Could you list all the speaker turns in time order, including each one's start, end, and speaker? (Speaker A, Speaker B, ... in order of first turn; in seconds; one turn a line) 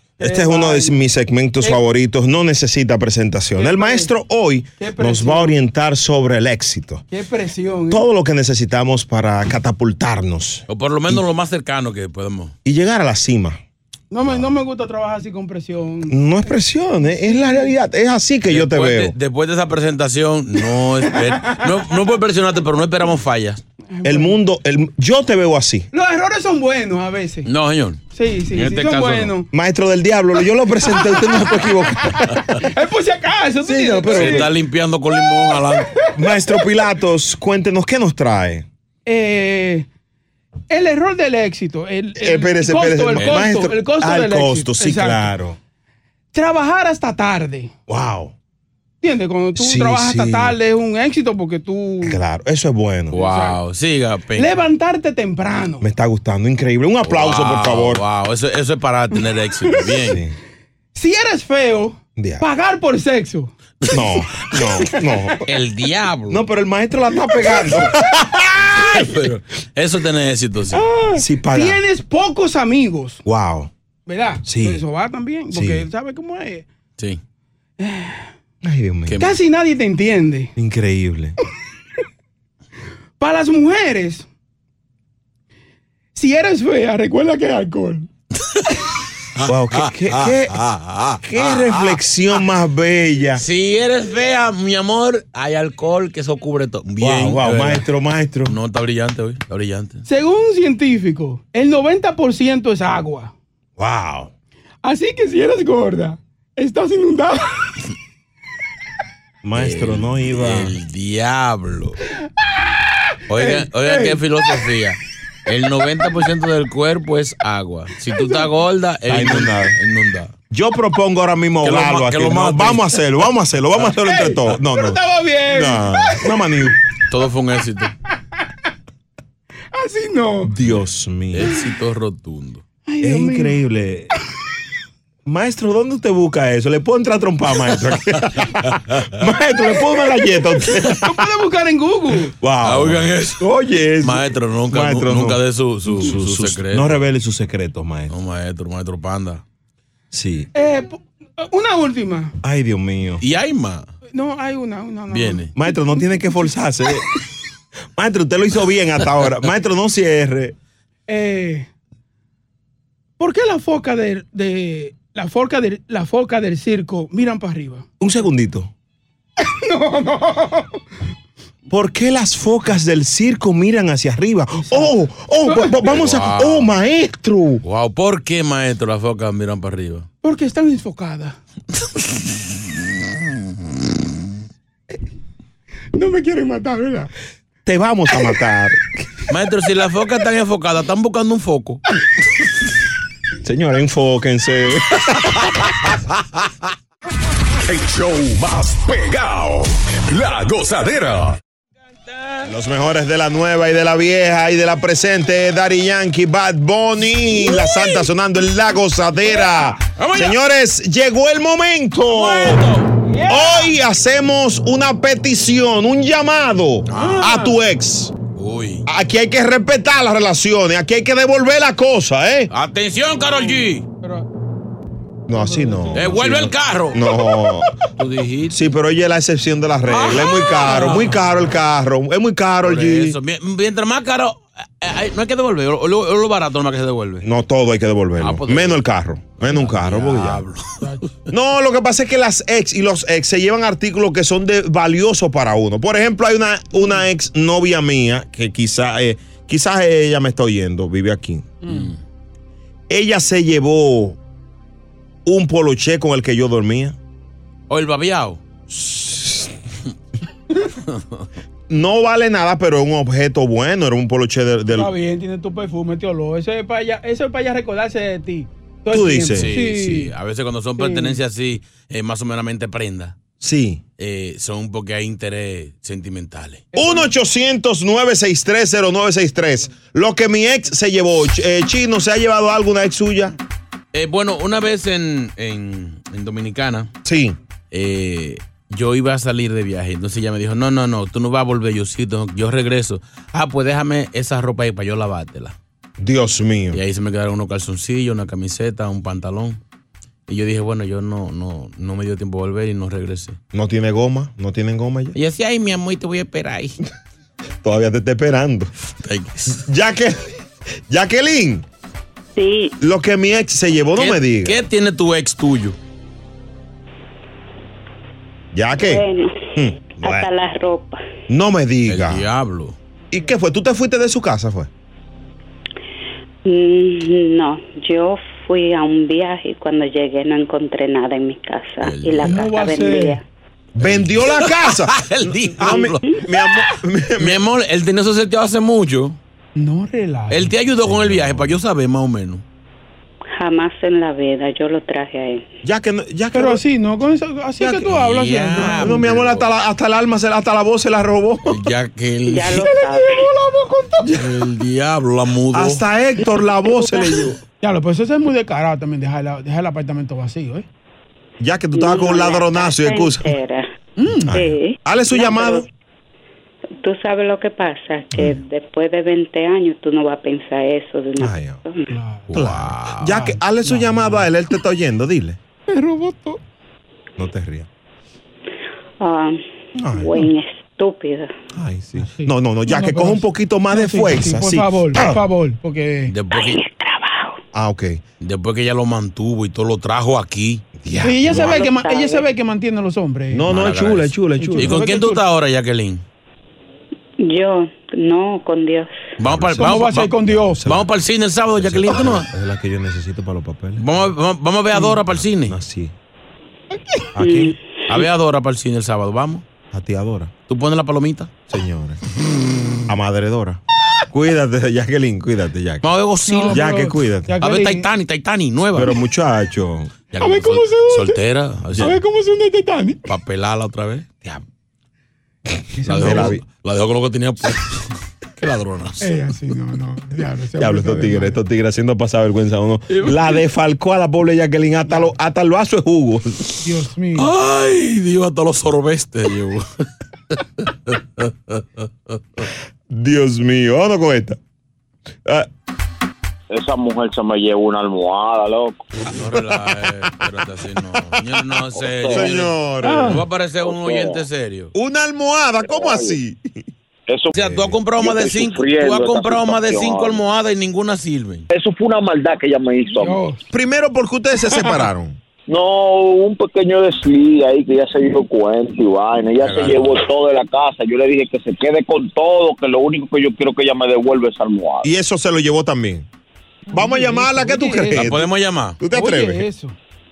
Speaker A: 0.2-1.0
Speaker B: 0.2-7.0
Speaker A: 3.6-4.1
Speaker A: 4.8-5.6
Speaker A: 7.1-8.1
Speaker B: 7.9-11.2
Speaker C: 10.7-12.5
Speaker B: 12.7-13.6
Speaker A: 14.1-16.5
Speaker B: 16.1-19.1
Speaker A: 17.0-17.7
Speaker C: 18.5-23.6
Speaker A: 21.2-21.7
Speaker A: 23.9-24.4
Speaker B: 24.0-25.9
Speaker A: 25.9-27.5
Speaker C: 27.4-29.4
Speaker A: 28.1-29.5
Speaker B: 29.5-32.4
Speaker A: 30.8-31.7
Speaker A: 32.6-34.5
Speaker B: 33.6-34.5
Speaker C: 34.1-35.9
Speaker A: 35.2-36.5
Speaker B: 36.2-38.7
Speaker A: 39.1-39.9
Speaker A: 40.7-45.3
Speaker B: 42.2-45.6
Speaker C: 43.2-43.4
Speaker A: 46.3-47.7
Speaker B: 47.9-48.3
Speaker A: 49.0-52.2
Speaker B: 49.6-50.6
Speaker B: 52.0-53.2
Speaker C: 53.1-54.5
Speaker A: 53.1-53.6
Speaker A: 54.4-55.9
Speaker B: 55.8-58.0
Speaker C: 57.0-60.2
Speaker B: 60.1-60.4
Speaker A: 61.0-63.5
Speaker B: 62.2-62.5
Speaker B: 63.9-65.4
Speaker C: 65.5-66.4
Speaker B: 66.3-69.2
Speaker A: 67.4-67.7
Speaker C: 68.8-70.8
Speaker A: 70.7-73.2
Speaker B: 71.2-71.8
Speaker B: 73.2-73.7
Speaker A: 74.1-76.7
Speaker B: 74.4-74.8
Speaker B: 75.5-75.9
Speaker A: 77.8-78.3
Speaker B: 78.6-79.2
Speaker C: 79.1-79.3
Speaker A: 79.2-80.5
Speaker B: 80.6-81.3
Speaker A: 83.2-84.3
Speaker A: 86.2-88.1
Speaker C: 89.4-92.0
Speaker B: 89.5-90.6
Speaker B: 91.2-93.4
Speaker C: 93.4-97.9
Speaker B: 97.0-98.5
Speaker C: 98.5-100.0
Speaker A: 100.0-103.3
Speaker B: 103.8-104.3
Speaker A: 104.8-107.5
Speaker B: 109.4-110.8
Speaker C: 109.6-112.0
Speaker C: 113.3-120.3
Speaker A: 113.3-114.2
Speaker B: 119.1-119.8
Speaker B: 120.5-126.8
Speaker C: 121.6-123.0
Speaker A: 124.0-126.2
Speaker C: 127.1-127.9
Speaker A: 129.8-130.5
Speaker B: 130.4-131.5
Speaker C: 131.3-132.6
Speaker A: 132.8-133.6
Speaker B: 133.0-134.1
Speaker B: 135.3-141.2
Speaker A: 139.9-142.3
Speaker B: 142.4-148.1
Speaker C: 142.7-143.4
Speaker C: 144.0-147.0
Speaker C: 148.1-149.4
Speaker B: 150.1-150.5
Speaker A: 150.5-152.3
Speaker B: 152.4-153.2
Speaker C: 153.2-153.9
Speaker A: 154.1-155.5
Speaker C: 155.1-155.5
Speaker B: 155.6-157.2
Speaker B: 158.0-160.6
Speaker A: 161.1-161.7
Speaker A: 163.2-167.9
Speaker B: 168.0-168.7
Speaker A: 169.4-170.7
Speaker B: 171.7-177.6
Speaker A: 174.6-174.9
Speaker A: 175.5-175.8
Speaker C: 175.8-176.7
Speaker C: 177.6-180.1
Speaker A: 180.2-181.4
Speaker A: 186.0-187.1
Speaker B: 187.7-188.8
Speaker C: 189.3-191.8
Speaker B: 193.4-195.6
Speaker D: 197.7-201.4
Speaker B: 202.5-212.7
Speaker A: 207.4-208.0
Speaker A: 209.3-209.7
Speaker C: 210.0-210.3
Speaker C: 212.2-212.8
Speaker A: 212.4-213.8
Speaker B: 213.3-218.1
Speaker C: 216.9-217.4
Speaker A: 217.0-217.5
Speaker C: 218.3-218.8
Speaker B: 218.9-222.5
Speaker C: 222.5-223.8
Speaker A: 223.3-224.3
Speaker B: 225.3-227.7
Speaker A: 225.3-226.2
Speaker C: 225.9-227.2
Speaker C: 228.0-228.6
Speaker B: 228.5-233.2
Speaker C: 229.9-231.1
Speaker A: 230.6-231.0
Speaker C: 232.6-237.2
Speaker B: 237.2-240.4
Speaker C: 238.2-238.8
Speaker C: 239.4-241.0
Speaker B: 241.3-251.5
Speaker C: 251.6-252.0
Speaker A: 251.7-251.9
Speaker B: 252.9-254.2
Speaker B: 255.3-257.0
Speaker C: 257.7-258.4
Speaker B: 258.7-259.5
Speaker C: 260.9-261.3
Speaker B: 261.7-264.9
Speaker A: 264.7-270.1
Speaker B: 268.9-269.5
Speaker C: 269.3-273.2
Speaker A: 270.8-271.2
Speaker B: 273.4-273.8
Speaker C: 274.0-276.7
Speaker A: 276.7-277.1
Speaker B: 276.8-283.3
Speaker C: 283.9-286.9
Speaker B: 287.1-287.4
Speaker C: 287.7-295.6
Speaker B: 296.0-296.8
Speaker C: 296.7-299.6
Speaker C: 300.3-303.4
Speaker B: 303.5-305.1
Speaker C: 305.1-306.8
Speaker B: 307.6-308.7
Speaker C: 309.0-309.6
Speaker B: 309.5-310.2
Speaker B: 310.9-311.6
Speaker E: 312.4-312.8
Speaker B: 312.8-314.6
Speaker C: 314.0-315.8
Speaker B: 318.5-319.0
Speaker E: 318.8-321.0
Speaker B: 319.6-320.3
Speaker B: 321.3-322.2
Speaker C: 321.9-322.8
Speaker B: 323.1-324.7
Speaker E: 326.5-333.2
Speaker C: 331.8-332.4
Speaker A: 332.2-333.2
Speaker B: 333.8-337.4
Speaker C: 333.8-336.2
Speaker C: 337.2-339.2
Speaker A: 339.6-340.5
Speaker C: 340.3-342.4
Speaker B: 340.8-341.6
Speaker E: 343.4-345.4
Speaker B: 345.6-346.6
Speaker A: 346.3-349.0
Speaker B: 347.6-347.9
Speaker C: 347.9-349.4
Speaker B: 348.7-351.6
Speaker C: 351.5-352.7
Speaker E: 352.3-353.3
Speaker A: 352.6-354.3
Speaker C: 354.0-355.8
Speaker B: 355.5-357.4
Speaker A: 357.6-360.7
Speaker B: 361.4-363.3
Speaker E: 361.7-363.7
Speaker A: 364.0-364.4
Speaker B: 364.2-365.6
Speaker E: 364.3-365.7
Speaker E: 366.8-371.8
Speaker B: 371.2-371.6
Speaker A: 371.9-372.4
Speaker C: 372.3-373.2
Speaker B: 372.3-375.4
Speaker A: 373.1-374.3
Speaker A: 375.7-376.4
Speaker B: 377.2-377.7
Speaker E: 379.0-379.4
Speaker B: 379.8-380.2
Speaker E: 380.0-381.3
Speaker B: 381.5-385.2
Speaker A: 382.0-386.1
Speaker C: 386.1-386.6
Speaker E: 386.3-387.4
Speaker B: 387.5-388.0
Speaker C: 388.2-390.6
Speaker B: 390.8-391.5
Speaker A: 391.0-393.5
Speaker E: 391.3-392.3
Speaker C: 391.3-391.6
Speaker B: 393.3-394.8
Speaker C: 393.5-396.0
Speaker A: 394.4-395.2
Speaker E: 397.2-398.9
Speaker C: 399.2-402.3
Speaker B: 399.2-400.9
Speaker A: 399.6-400.6
Speaker B: 401.6-404.0
Speaker C: 403.8-405.6
Speaker B: 405.0-405.9
Speaker B: 407.1-407.5
Speaker E: 407.2-407.6
Speaker C: 407.9-409.4
Speaker B: 409.7-410.3
Speaker C: 410.5-411.3
Speaker B: 411.5-412.0
Speaker B: 412.9-413.6
Speaker B: 414.1-415.9
Speaker C: 415.8-416.7
Speaker A: 416.2-417.9
Speaker B: 416.5-417.4
Speaker C: 417.4-418.9
Speaker B: 418.8-419.9
Speaker C: 420.1-422.0
Speaker A: 420.2-421.2
Speaker A: 421.8-423.0
Speaker C: 423.1-424.1
Speaker A: 425.8-426.4
Speaker C: 425.9-427.8
Speaker B: 426.0-426.4
Speaker C: 428.4-429.1
Speaker A: 429.0-431.4
Speaker B: 430.6-436.4
Speaker C: 432.9-433.4
Speaker A: 434.9-435.1
Speaker A: 436.6-437.3
Speaker C: 437.1-439.6
Speaker C: 440.6-441.6
Speaker B: 442.9-444.4
Speaker F: 446.5-448.9
Speaker C: 449.1-452.6
Speaker F: 451.8-452.2
Speaker B: 452.1-453.2
Speaker A: 452.8-453.2
Speaker C: 453.1-454.7
Speaker F: 453.6-454.2
Speaker B: 454.7-456.5
Speaker F: 455.7-456.1
Speaker F: 457.1-457.4
Speaker C: 457.3-461.5
Speaker B: 457.4-457.8
Speaker F: 457.9-460.2
Speaker F: 461.5-463.2
Speaker A: 462.9-463.4
Speaker B: 463.5-465.2
Speaker A: 464.5-464.8
Speaker F: 465.5-474.9
Speaker C: 469.4-470.0
Speaker B: 474.8-476.1
Speaker A: 476.7-478.3
Speaker B: 476.7-478.2
Speaker C: 477.9-478.8
Speaker B: 478.8-479.4
Speaker A: 478.9-479.8